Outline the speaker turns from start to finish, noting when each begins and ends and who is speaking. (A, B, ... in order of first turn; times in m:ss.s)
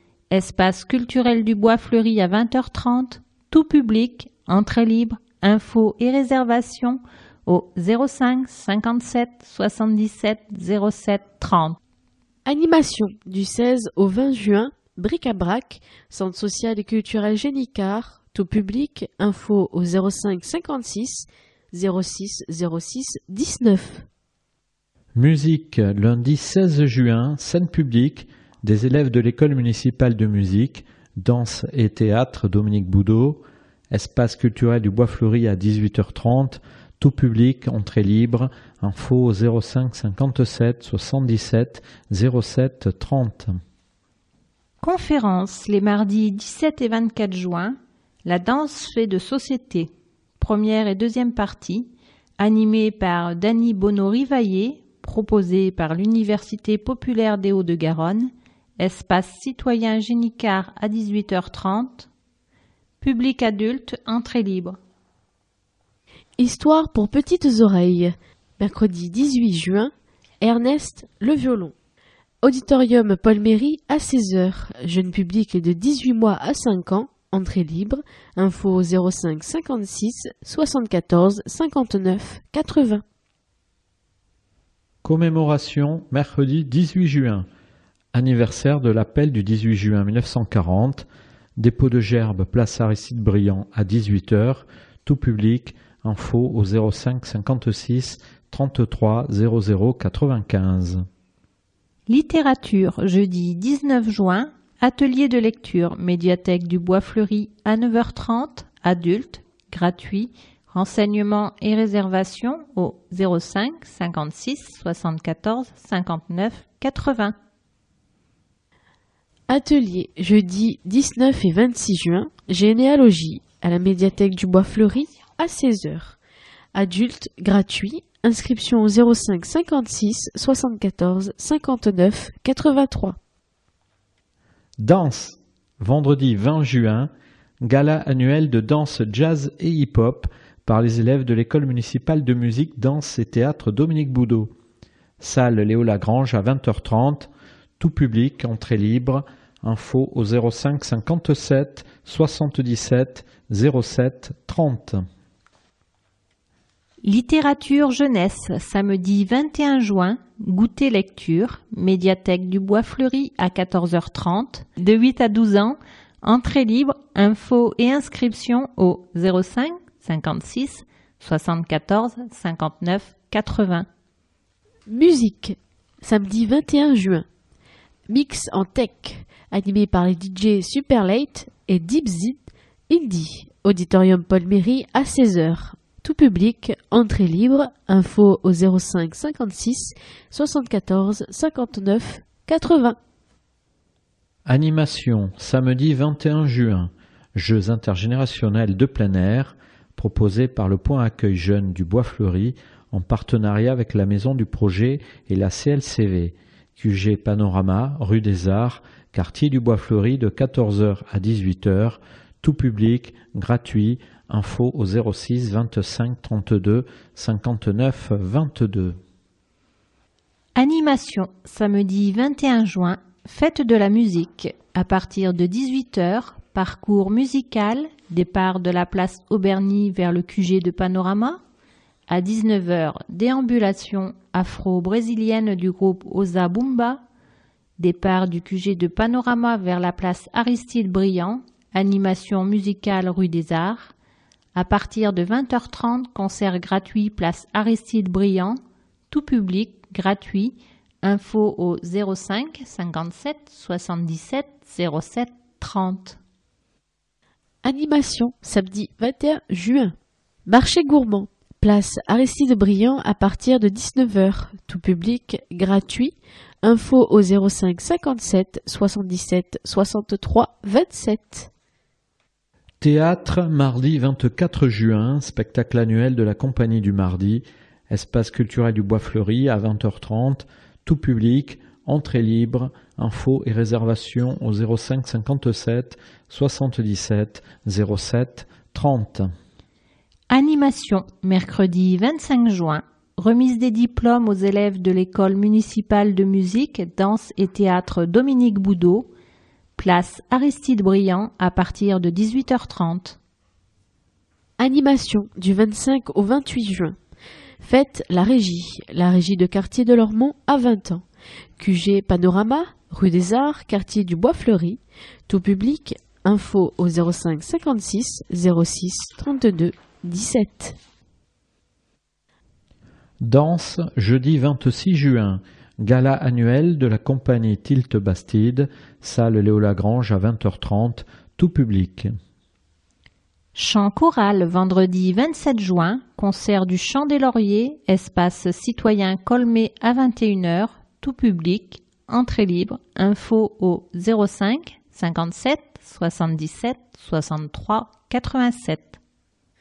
0:00.3-0:11.8 A
0:12.5-0:24.1 B
0:25.2-0:43.6 C
0:44.8-1:02.1 A
1:03.0-1:04.8 A
1:06.4-1:11.7 B
1:12.4-1:23.0 B
1:25.0-1:27.5 C
1:28.1-1:31.1 C
1:31.6-1:41.0 C
1:42.1-1:57.4 A
1:59.5-2:06.2 B
2:06.7-2:13.2 B
2:14.8-2:17.1 C
2:17.6-2:24.5 C
2:25.2-2:35.0 C
2:37.0-2:53.9 A
2:54.9-2:57.3 B
2:58.1-3:13.0 B
3:14.5-3:39.0 C
3:40.6-3:51.4 A
3:52.1-3:57.0 A
3:57.8-4:03.9 A
4:04.6-4:08.6 A
4:09.1-4:16.2 A
4:17.6-4:19.9 B
4:20.5-4:31.5 B
4:32.8-4:49.3 C
4:50.3-4:59.1 A
4:59.8-5:03.2 A
5:04.6-5:07.0 B
5:07.6-5:11.0 B
5:11.6-5:20.8 B
5:23.2-5:32.1 C
5:33.6-5:49.0 A